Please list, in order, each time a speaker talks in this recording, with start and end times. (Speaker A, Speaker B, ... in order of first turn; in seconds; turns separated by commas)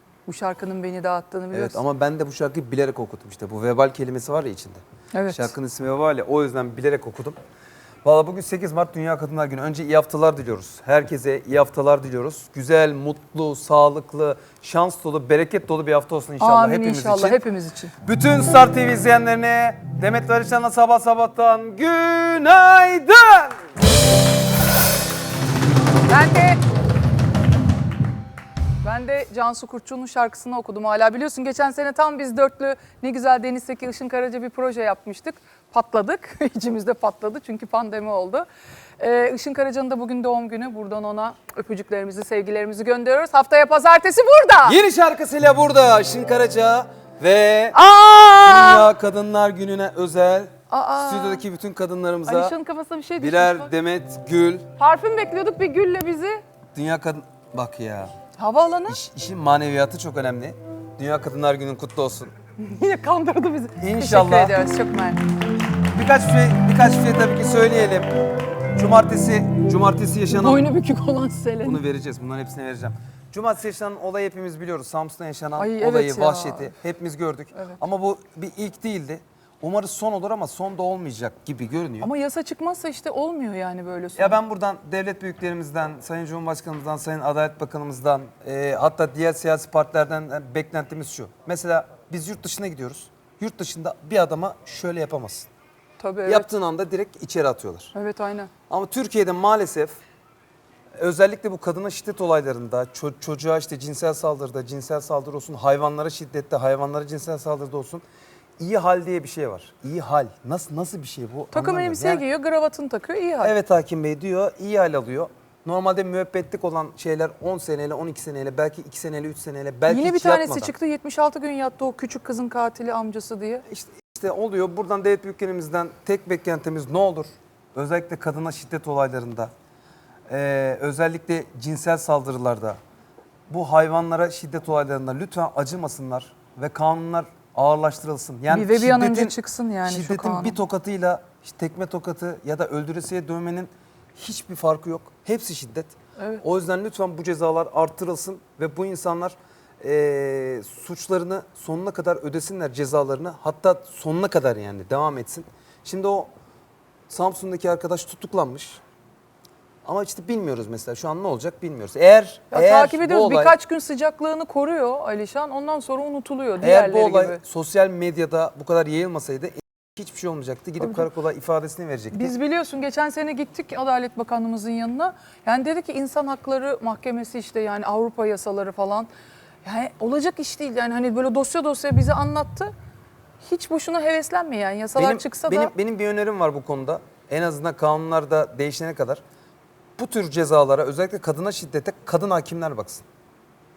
Speaker A: 0.2-1.8, Speaker B: 1.5-7.4, Speaker A: 5.1-5.5, Speaker B: 8.0-17.4, Speaker A: 16.4-17.9, Speaker B: 18.0-23.5, Speaker A: 26.1-26.6, Speaker A: 28.8-38.5, Speaker A: 39.0-44.8, Speaker B: 44.6-47.8, Speaker A: 47.7-48.9, Speaker B: 48.4-52.5, Speaker A: 50.7-51.4, Speaker A: 52.2-53.7, Speaker B: 53.2-54.7, Speaker A: 54.8-56.4, Speaker B: 56.7-58.1, Speaker A: 58.4-59.0, Speaker B: 58.9-62.3, Speaker A: 62.6-65.2, Speaker B: 63.8-64.5, Speaker B: 65.9-68.1, Speaker B: 68.8-70.7, Speaker A: 70.3-71.8, Speaker B: 71.6-82.1, Speaker A: 75.6-76.7, Speaker A: 82.0-84.4, Speaker B: 84.1-95.5, Speaker A: 96.0-96.5, Speaker B: 96.2-97.9, Speaker A: 97.9-98.5, Speaker B: 98.7-100.0, Speaker B: 101.0-108.0, Speaker B: 108.6-112.2, Speaker A: 111.5-113.5, Speaker B: 113.4-120.7, Speaker A: 119.9-123.6, Speaker B: 123.7-129.5, Speaker B: 130.3-132.8, Speaker B: 133.5-156.3, Speaker A: 138.5-140.6, Speaker B: 157.1-158.8, Speaker B: 159.8-163.6, Speaker A: 162.5-167.4, Speaker B: 166.6-172.3, Speaker A: 172.1-179.1, Speaker A: 179.6-182.7, Speaker A: 183.4-185.7, Speaker B: 184.9-189.2, Speaker B: 190.0-193.0